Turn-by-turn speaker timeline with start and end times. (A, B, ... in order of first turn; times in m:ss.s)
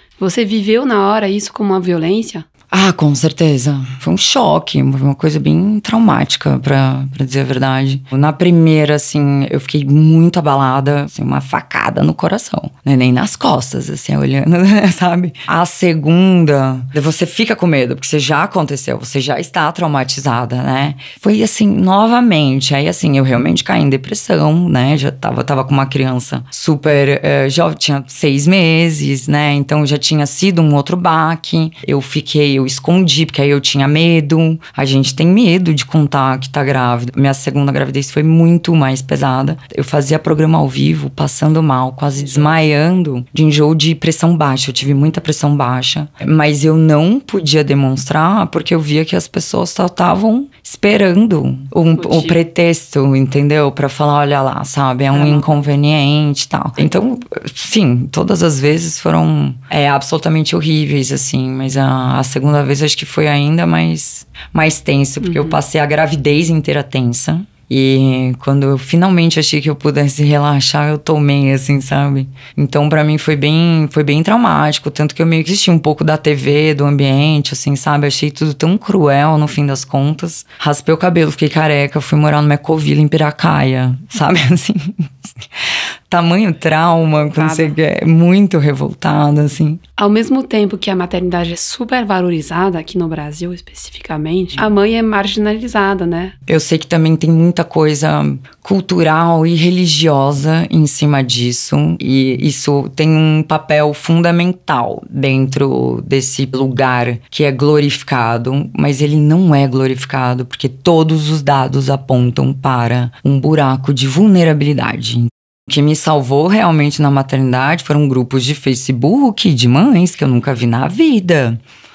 0:00.2-0:02.4 A
0:02.7-1:25.3 B
0:52.0-0:52.4 A
0:55.1-0:55.6 A
1:05.2-1:05.6 A
1:26.1-1:29.8 B
1:27.4-1:27.8 A
1:30.0-1:36.4 A
1:36.5-2:01.6 B